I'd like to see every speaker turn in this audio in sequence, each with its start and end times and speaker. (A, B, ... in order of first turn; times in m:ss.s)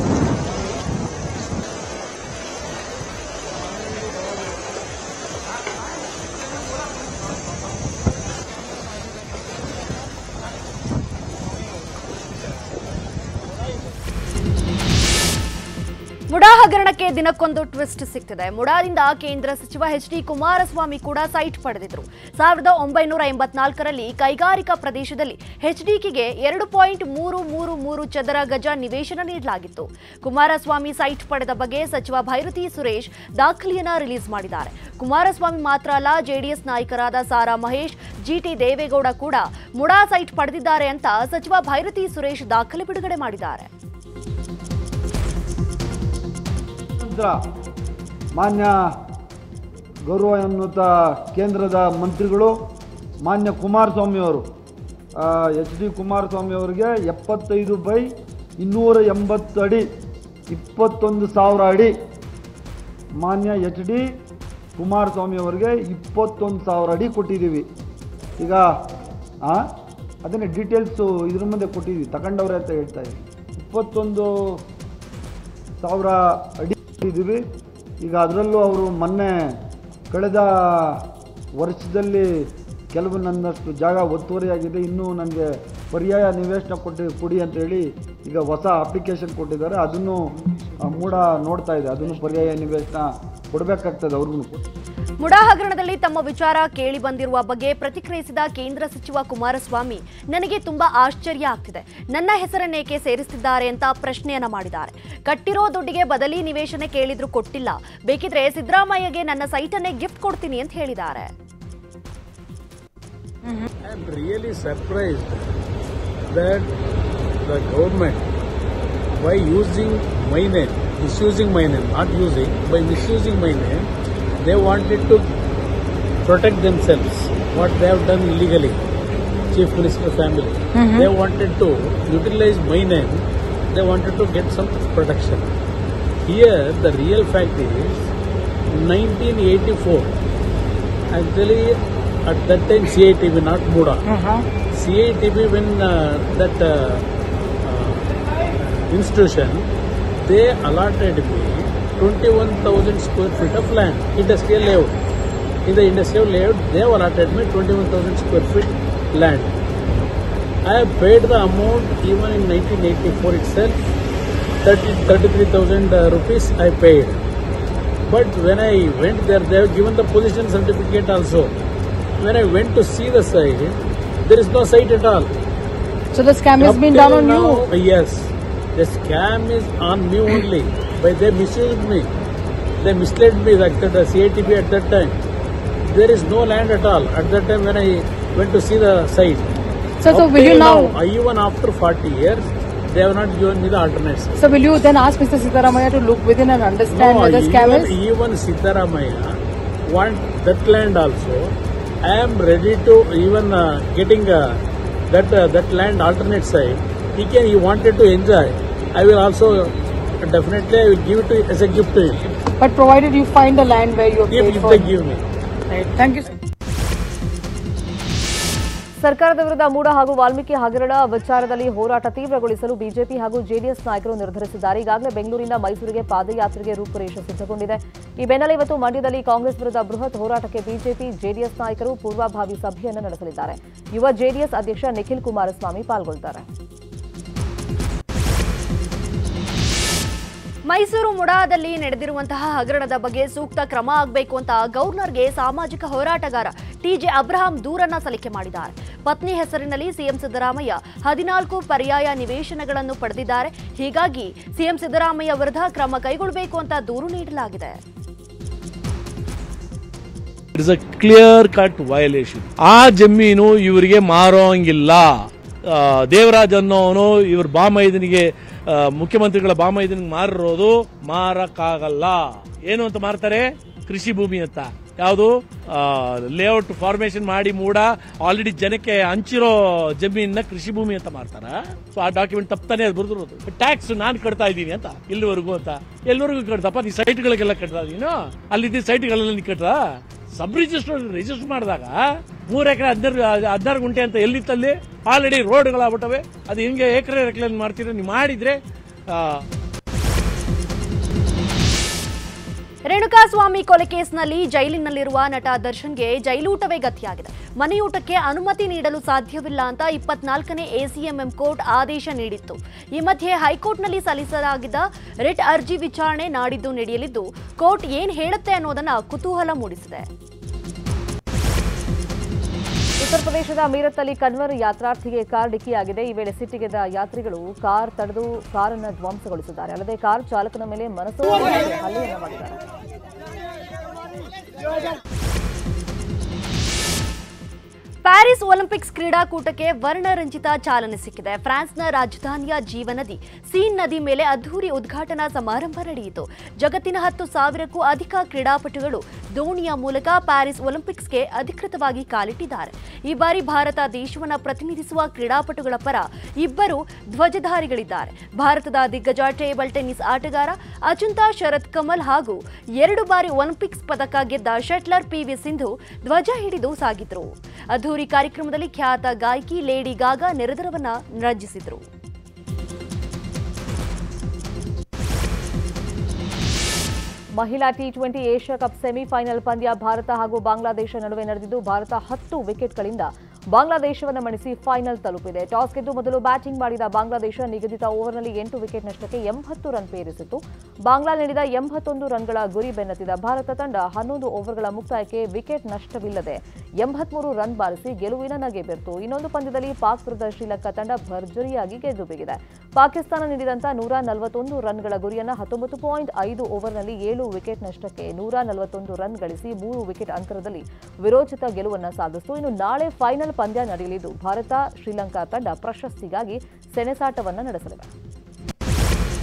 0:16.3-0:43.7 A
0:47.0-0:47.4 B
0:48.4-0:48.8 B
0:50.1-0:52.6 B
0:53.3-0:54.5 B
0:55.2-0:58.1 B
0:58.6-0:59.8 B
1:00.5-1:01.9 B
1:03.2-1:04.0 B
1:04.8-1:07.7 B
1:08.4-1:08.6 B
1:10.2-1:14.3 B
1:15.8-1:17.4 B
1:18.0-1:19.4 B
1:20.1-1:21.0 B
1:21.6-1:22.3 B
1:22.9-1:30.2 B
1:30.8-1:34.5 B
1:35.2-1:51.3 A
1:53.8-1:55.5 C
1:56.3-1:56.7 C
1:57.4-1:58.2 C
1:59.2-2:03.9 C
2:04.4-2:05.2 C
2:06.2-2:08.8 C
2:09.5-2:15.5 C
2:10.8-2:11.1 D
2:16.2-2:18.1 C
2:18.8-2:20.1 C
2:21.1-2:21.7 C
2:22.3-2:24.0 C
2:24.1-2:24.4 D
2:24.7-2:27.0 C
2:27.6-2:28.0 C
2:28.6-2:29.7 C
2:30.2-2:35.0 C
2:35.7-2:39.6 C
2:40.7-2:43.8 C
2:44.6-2:47.2 C
2:48.1-2:51.5 C
2:52.2-2:53.7 C
2:54.3-2:55.3 C
2:56.1-2:57.6 D
2:56.6-2:58.2 C
2:58.8-3:02.1 C
3:02.8-3:05.2 C
3:05.9-3:09.5 C
3:10.0-3:10.9 D
3:10.1-3:14.3 C
3:14.4-3:18.0 D
3:16.9-3:19.3 C
3:19.9-3:21.4 C
3:22.1-3:24.4 C
3:25.1-3:29.6 C
3:30.3-3:32.2 C
3:32.6-3:34.9 D
3:34.3-3:35.2 C
3:35.7-3:36.3 D
3:39.0-3:56.4 E
4:00.7-4:17.8 A
4:20.5-4:58.6 F
4:59.1-4:59.4 F
5:02.9-5:20.1 A
5:23.0-5:32.6 E
5:38.1-6:11.9 A
6:17.4-6:57.9 E